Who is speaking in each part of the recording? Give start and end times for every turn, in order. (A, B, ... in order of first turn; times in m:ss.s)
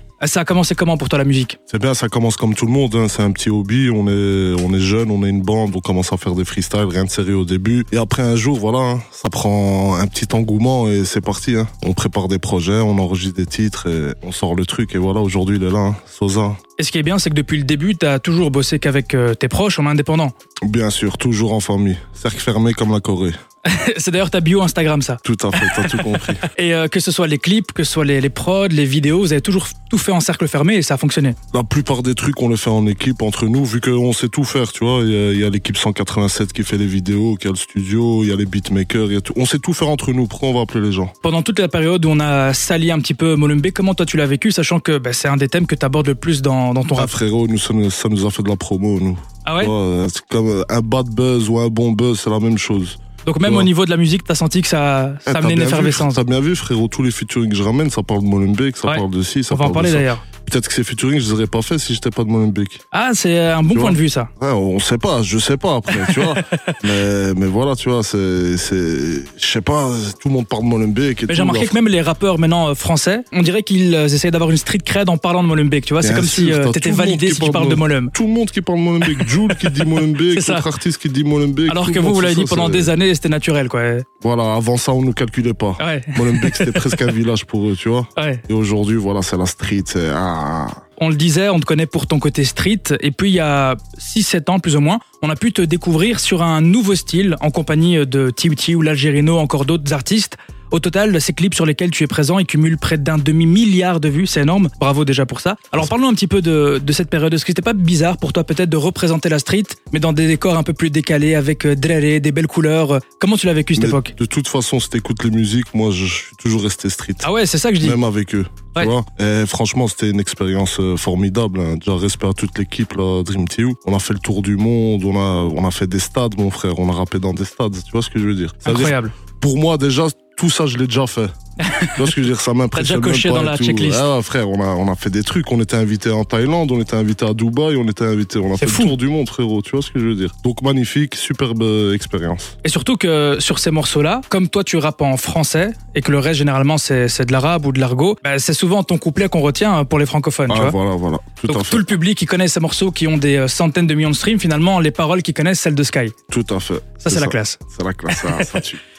0:00.2-0:01.6 A
0:01.7-0:16.6 B
0:16.8-0:20.3 A
0:20.6-0:23.4 B
0:23.6-0:31.4 A
0:25.2-0:26.4 B
0:31.5-0:41.1 B
0:41.2-0:47.1 A
0:46.9-0:53.7 B
0:49.4-0:49.7 A
0:53.2-0:56.2 A
0:55.2-1:02.8 B
0:58.8-1:00.2 A
1:02.9-1:04.3 A
1:03.7-1:11.8 B
1:05.9-1:06.8 A
1:11.3-1:18.1 A
1:16.0-1:22.9 B
1:19.0-1:20.7 A
1:21.7-1:24.0 A
1:24.2-1:30.8 B
1:25.8-1:27.1 A
1:28.2-1:28.4 A
1:31.0-1:54.1 A
1:53.7-2:11.3 B
1:57.2-1:58.0 A
2:08.6-2:09.1 A
2:11.6-2:12.1 A
2:11.9-2:22.5 B
2:12.7-2:14.1 A
2:18.6-2:18.9 A
2:22.6-2:30.8 A
2:30.5-2:31.9 B
2:31.5-2:36.1 A
2:36.3-2:38.8 B
2:37.0-2:38.6 A